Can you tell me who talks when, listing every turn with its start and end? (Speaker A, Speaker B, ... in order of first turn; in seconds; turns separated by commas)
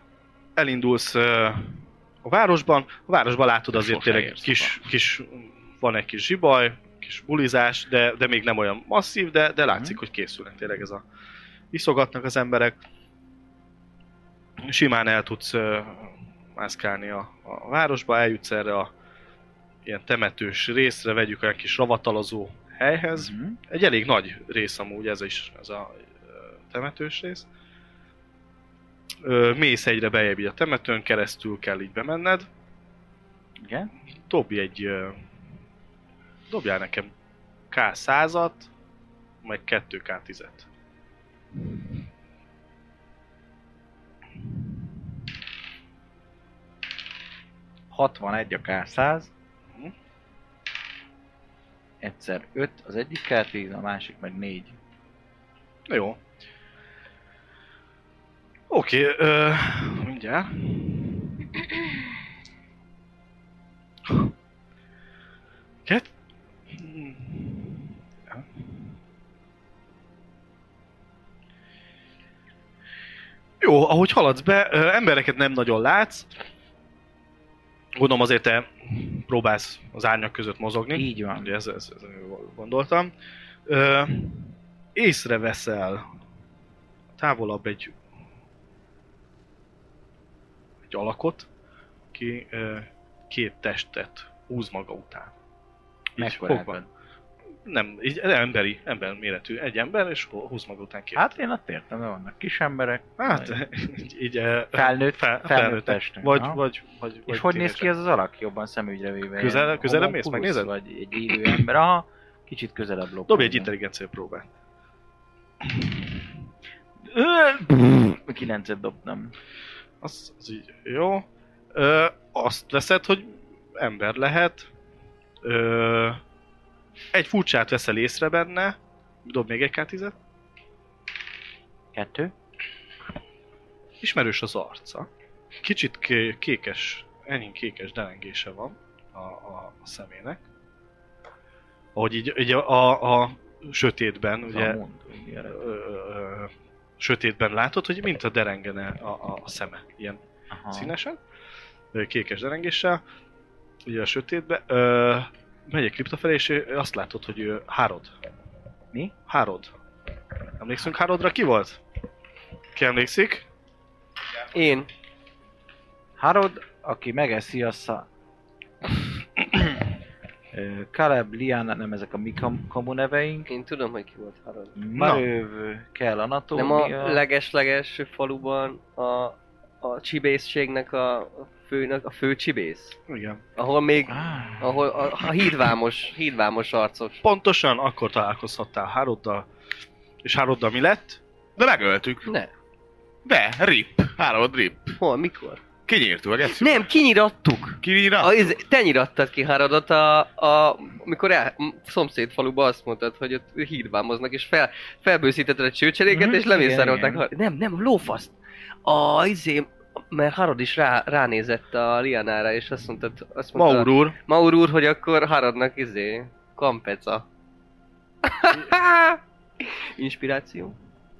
Speaker A: 0.6-11.0, Speaker B: 3.7-4.8, Speaker C: 9.7-10.0, Speaker A: 11.7-12.8, Speaker A: 14.6-18.9, Speaker A: 19.9-27.4, Speaker C: 23.1-23.6, Speaker A: 29.2-32.5, Speaker C: 33.6-33.9, Speaker A: 34.3-35.2, Speaker A: 36.5-37.1, Speaker A: 37.7-38.7, Speaker A: 39.4-40.6, Speaker C: 47.9-49.3, Speaker C: 52.0-54.8, Speaker A: 55.9-56.2, Speaker A: 58.7-61.3, Speaker A: 66.7-68.4, Speaker A: 73.6-76.3, Speaker A: 78.0-83.1, Speaker C: 80.9-81.5, Speaker A: 83.7-86.0, Speaker A: 87.2-87.9, Speaker A: 90.9-91.5, Speaker A: 92.1-95.3, Speaker A: 96.2-96.8, Speaker C: 96.2-96.9, Speaker A: 97.7-101.3, Speaker C: 101.1-103.6, Speaker A: 103.2-107.9, Speaker C: 104.7-106.6, Speaker C: 107.3-113.7, Speaker A: 109.3-110.7, Speaker A: 113.3-114.5, Speaker C: 117.0-119.3, Speaker A: 120.0-124.7, Speaker A: 125.4-126.2, Speaker A: 127.1-130.1, Speaker C: 131.9-132.3, Speaker A: 134.0-135.1, Speaker A: 135.6-140.4, Speaker A: 141.9-144.8, Speaker C: 144.5-145.6, Speaker A: 145.5-150.2, Speaker C: 150.5-150.9, Speaker A: 150.7-151.2, Speaker A: 151.9-153.0, Speaker A: 153.8-158.1, Speaker A: 159.3-159.7, Speaker A: 160.6-161.8, Speaker A: 162.7-163.4, Speaker D: 164.5-164.9, Speaker C: 166.2-168.1, Speaker C: 170.5-173.5, Speaker D: 173.5-174.8, Speaker C: 174.8-177.2, Speaker A: 174.9-175.2, Speaker D: 176.5-183.0, Speaker A: 183.1-183.4, Speaker D: 183.6-187.2, Speaker C: 184.1-184.7, Speaker A: 187.2-189.4, Speaker A: 190.2-191.2, Speaker B: 191.6-192.3, Speaker D: 192.2-192.5, Speaker B: 193.2-195.0, Speaker D: 195.0-195.6, Speaker B: 195.9-196.9, Speaker D: 196.6-208.3, Speaker B: 197.8-198.6, Speaker C: 206.1-207.2, Speaker D: 208.8-217.2, Speaker A: 213.5-214.2, Speaker D: 218.2-220.7